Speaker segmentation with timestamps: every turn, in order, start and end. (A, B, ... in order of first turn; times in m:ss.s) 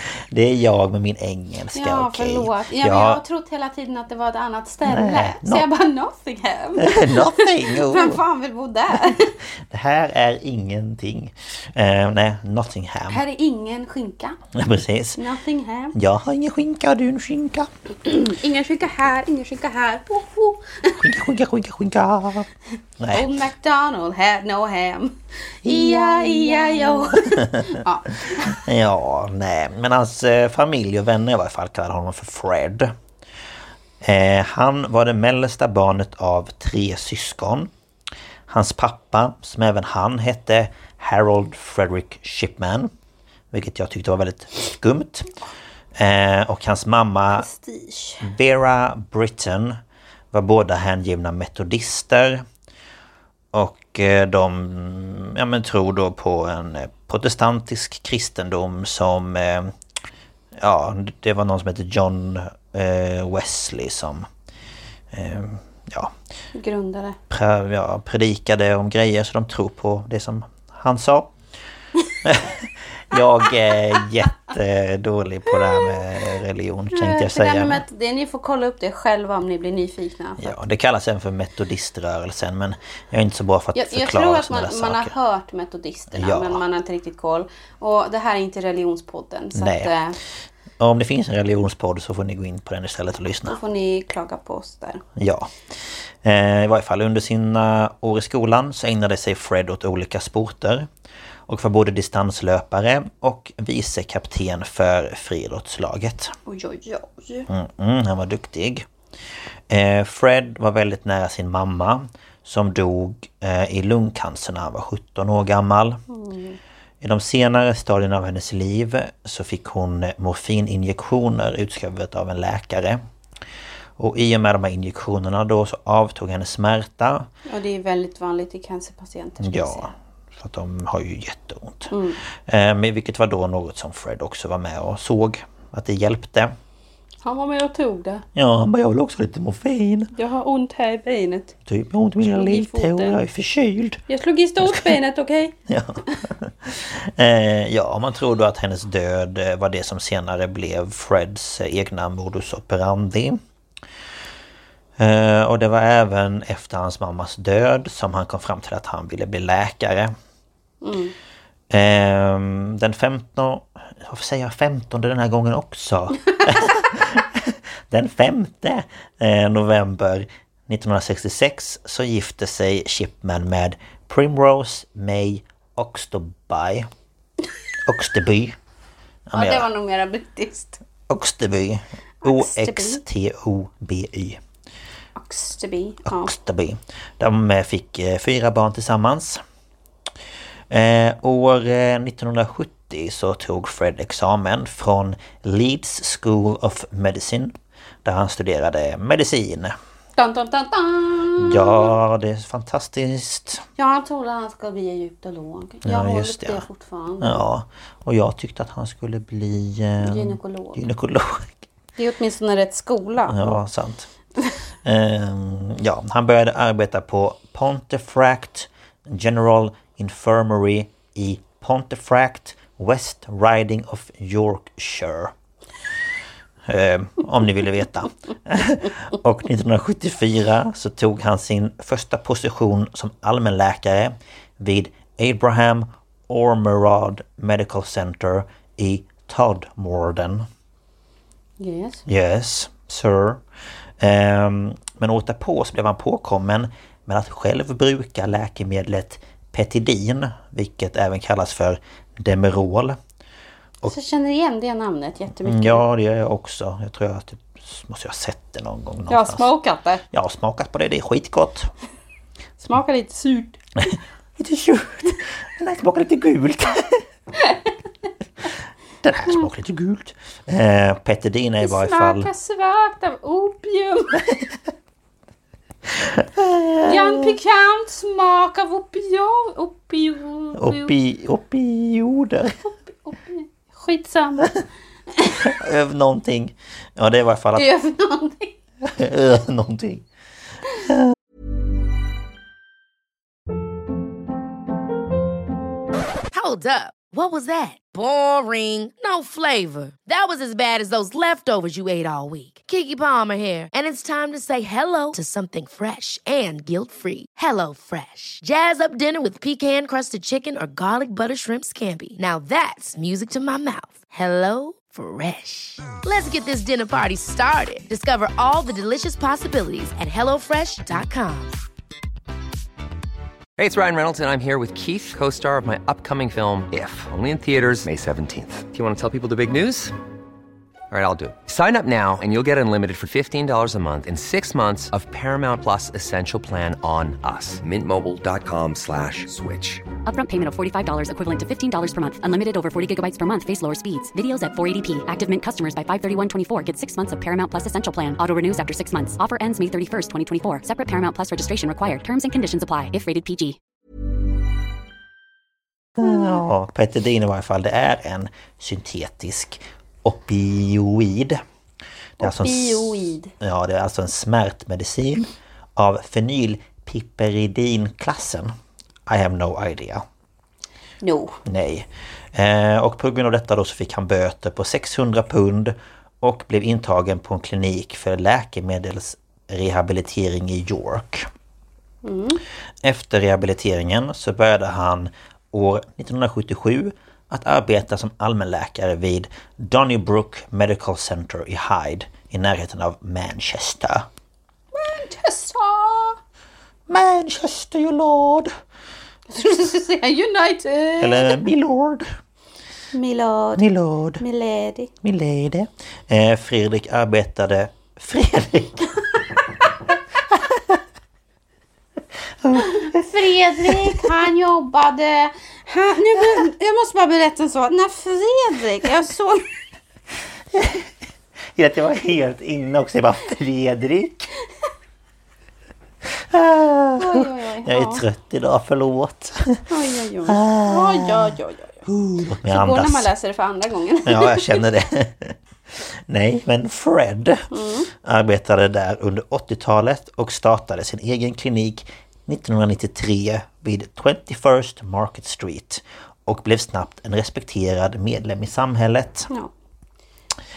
0:00.2-0:03.2 A
0:01.7-0:09.4 B
0:04.8-0:05.7 A
0:06.8-0:08.2 A
0:08.9-0:13.2 A
0:13.1-0:14.4 B
0:14.5-0:15.2 A
0:15.2-0:15.9 B
0:15.9-0:17.7 A
0:18.0-0:21.1 B
0:21.0-0:22.5 A
0:23.0-0:23.3 A
0:23.1-0:28.6 B
0:25.6-0:32.9 A
0:34.0-0:37.7 A
0:38.5-0:42.9 A
0:43.5-0:45.3 A
0:46.0-0:47.5 A
0:47.4-0:48.3 B
0:48.2-0:49.8 A
0:50.3-0:52.4 A
0:53.5-0:59.7 A
1:00.6-1:04.3 A
1:05.1-1:06.1 A
1:06.5-1:07.2 B
1:07.3-1:11.3 A
1:12.2-1:17.8 A
1:16.9-1:20.6 B
1:20.4-1:25.1 A
1:23.8-1:30.2 B
1:26.1-1:26.6 A
1:29.6-1:29.9 A
1:30.8-1:33.6 A
1:33.5-1:35.0 B
1:35.2-1:40.9 A
1:41.5-1:46.4 A
1:46.5-1:47.5 B
1:47.5-1:48.9 A
1:49.7-1:56.0 A
1:56.1-1:56.6 B
1:57.0-2:03.0 A
2:04.0-2:07.3 A
2:07.5-2:09.9 B
2:09.4-2:16.5 A
2:11.9-2:12.2 B
2:17.2-2:18.2 B
2:18.4-2:20.1 A
2:20.1-2:21.6 B
2:21.6-2:24.0 A
2:22.2-2:23.2 B
2:24.1-2:25.6 B
2:24.6-2:24.9 A
2:25.7-2:33.4 A
2:35.0-2:40.1 A
2:40.8-2:41.1 B
2:41.7-2:56.9 A
2:57.8-2:58.6 A
2:59.3-2:59.7 A
2:59.3-3:00.8 B
3:01.1-3:04.4 A
3:02.2-3:03.0 B
3:05.2-3:06.3 B
3:06.1-3:09.4 A
3:10.7-3:19.8 A
3:20.2-3:22.0 B
3:21.4-3:23.6 A
3:23.8-3:27.4 B
3:25.8-3:26.6 A
3:27.2-3:31.6 A
3:30.0-3:30.9 B
3:32.0-3:33.6 B
3:33.2-3:34.1 A
3:34.8-3:45.3 A
3:46.7-4:00.5 A
4:01.6-4:02.0 B
4:02.1-4:03.4 A
4:04.0-4:13.0 A
4:13.8-4:15.9 B
4:15.4-4:19.5 A
4:19.1-4:20.0 B
4:20.1-4:21.7 A
4:22.6-4:24.0 B
4:23.8-4:27.0 A
4:29.0-4:32.3 A
4:31.6-4:34.2 B
4:34.2-4:34.6 A
4:35.9-4:37.3 A
4:36.8-4:40.9 B
4:40.6-4:42.6 A
4:43.0-4:44.6 B
4:45.2-4:45.5 B
4:45.4-4:47.7 A
4:47.6-4:48.6 B
4:48.8-4:50.0 A
4:50.9-4:51.1 A
4:56.3-5:21.6 C
5:23.6-5:29.9 D
5:30.9-5:39.8 D
5:40.1-5:53.6 E
5:56.0-6:01.4 A
6:02.2-6:03.3 B
6:02.2-6:08.5 A
6:09.1-6:10.0 A
6:11.0-6:11.4 B
6:11.4-6:21.3 A
6:22.0-6:22.4 B
6:22.8-6:34.1 A
6:34.7-6:36.2 B
6:36.9-6:38.5 A
6:39.3-6:41.4 B
6:41.0-6:42.1 A
6:42.9-6:43.6 B
6:43.6-6:44.2 A
6:44.2-6:44.9 B
6:45.0-6:48.9 A
6:50.3-6:50.8 A
6:52.4-6:54.2 A
6:52.6-6:59.5 B
7:00.5-7:00.9 A
7:01.6-7:04.3 A
7:06.1-7:09.6 A
7:07.0-7:08.0 B
7:09.7-7:11.9 B
7:10.3-7:11.3 A
7:11.9-7:13.1 A
7:12.4-7:14.6 B
7:14.1-7:29.3 A
7:17.5-7:17.9 B